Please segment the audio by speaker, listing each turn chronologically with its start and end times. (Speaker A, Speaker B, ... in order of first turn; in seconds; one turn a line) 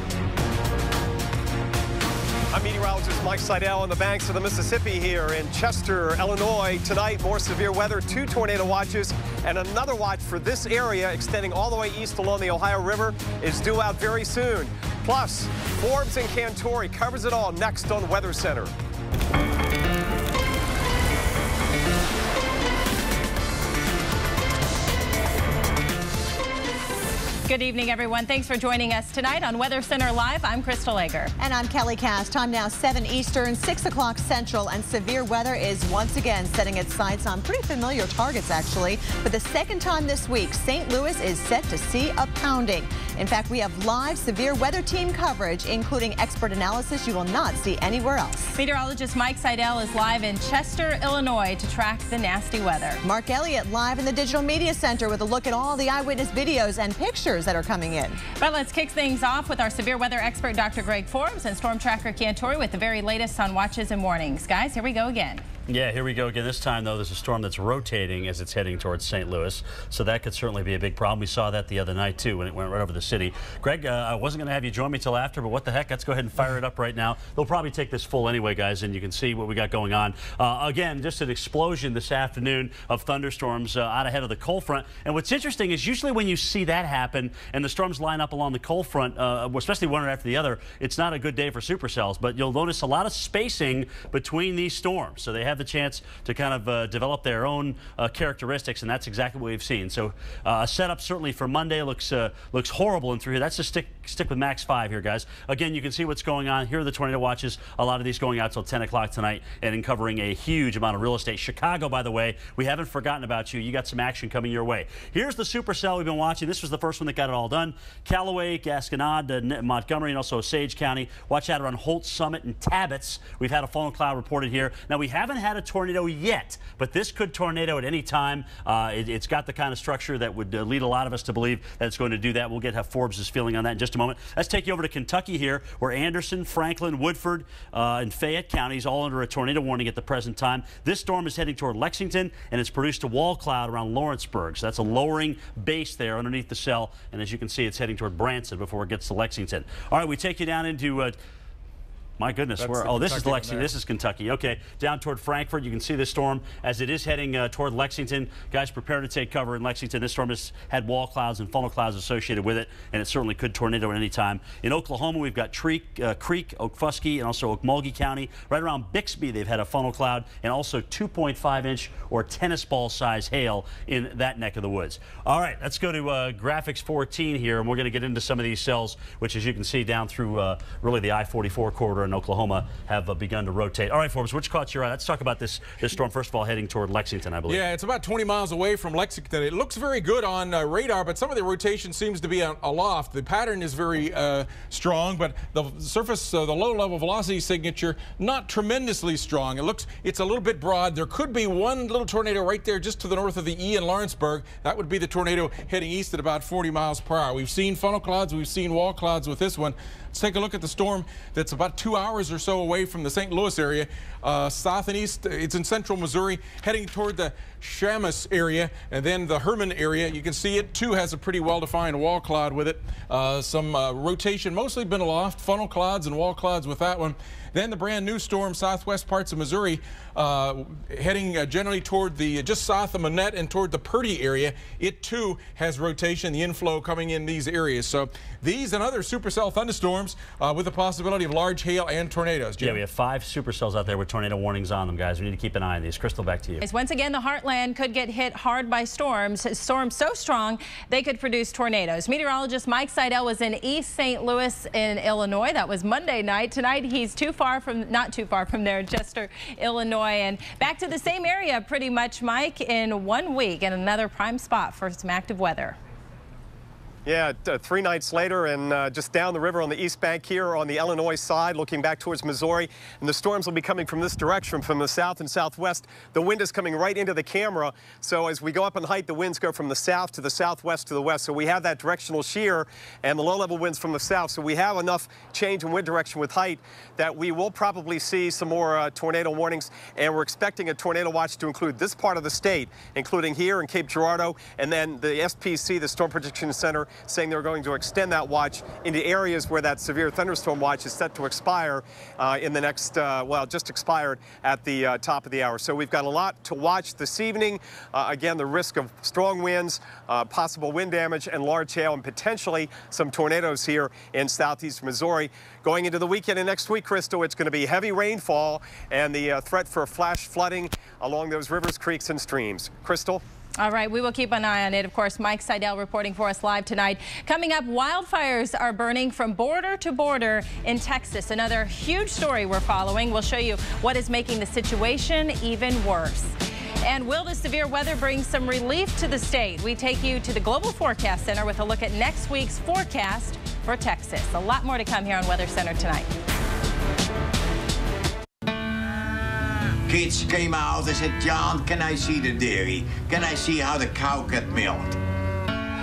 Speaker A: 2.5-18.7
Speaker B: 27.4-31.3
Speaker C: 31.4-48.5
Speaker B: 48.5-53.0
Speaker C: 53.0-58.2
Speaker B: 58.4-65.4
Speaker D: 65.7-151.2
Speaker D: 152.2-187.6
Speaker E: 187.5-242.8
Speaker D: 242.6-246.6
Speaker B: 246.6-265.8
Speaker A: 267.1-323.2
Speaker B: 323.6-336.3
Speaker B: 336.8-346.1
Speaker F: 349.9-355.0